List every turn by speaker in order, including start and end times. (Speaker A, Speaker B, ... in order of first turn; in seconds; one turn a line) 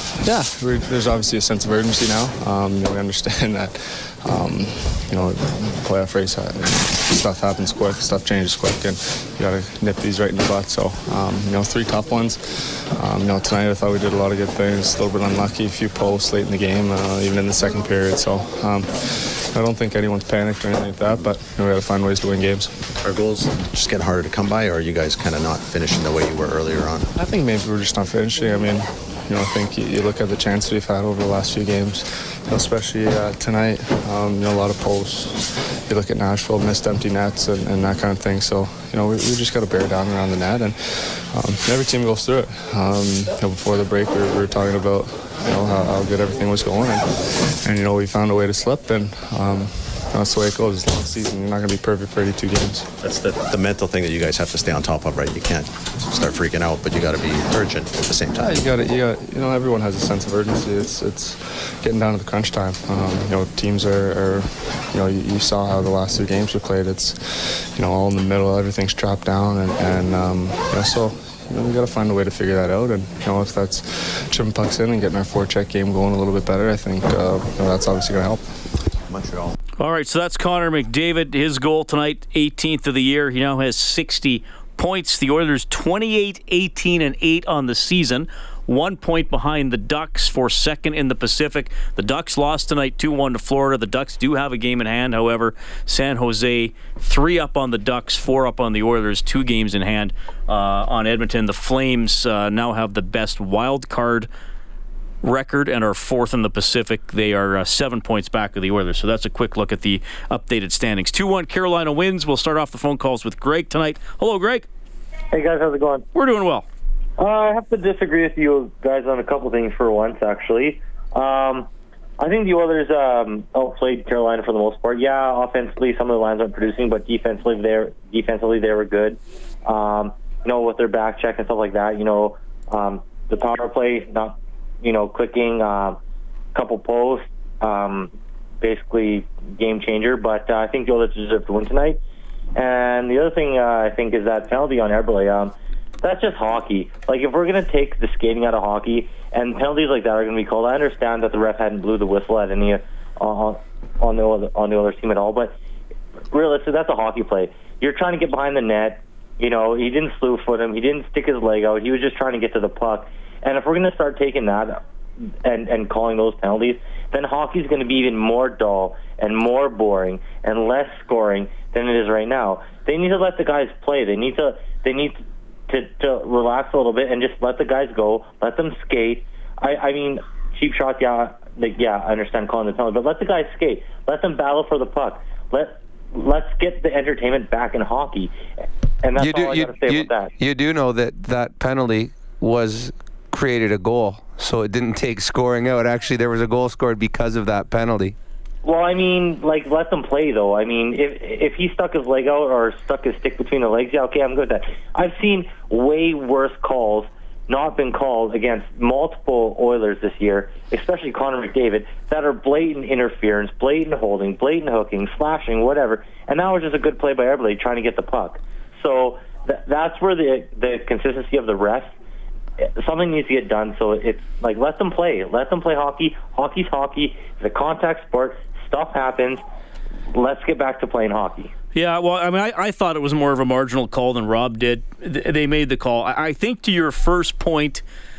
Speaker A: 0.2-22.9
Speaker B: 23.0-27.1
Speaker A: 27.1-52.9
Speaker B: 53.0-58.6
Speaker A: 58.4-78.5
Speaker B: 79.1-79.5
Speaker C: 79.8-104.3
Speaker C: 105.2-114.7
Speaker D: 115.3-116.1
Speaker C: 116.1-116.7
Speaker D: 117.2-121.7
Speaker D: 122.2-136.0
Speaker D: 136.5-142.0
Speaker D: 142.6-155.6
Speaker D: 156.3-164.8
Speaker D: 165.4-188.3
Speaker D: 189.0-190.3
Speaker E: 189.2-198.2
Speaker D: 198.6-221.9
Speaker D: 222.6-229.4
Speaker D: 230.1-231.5
Speaker C: 231.7-237.8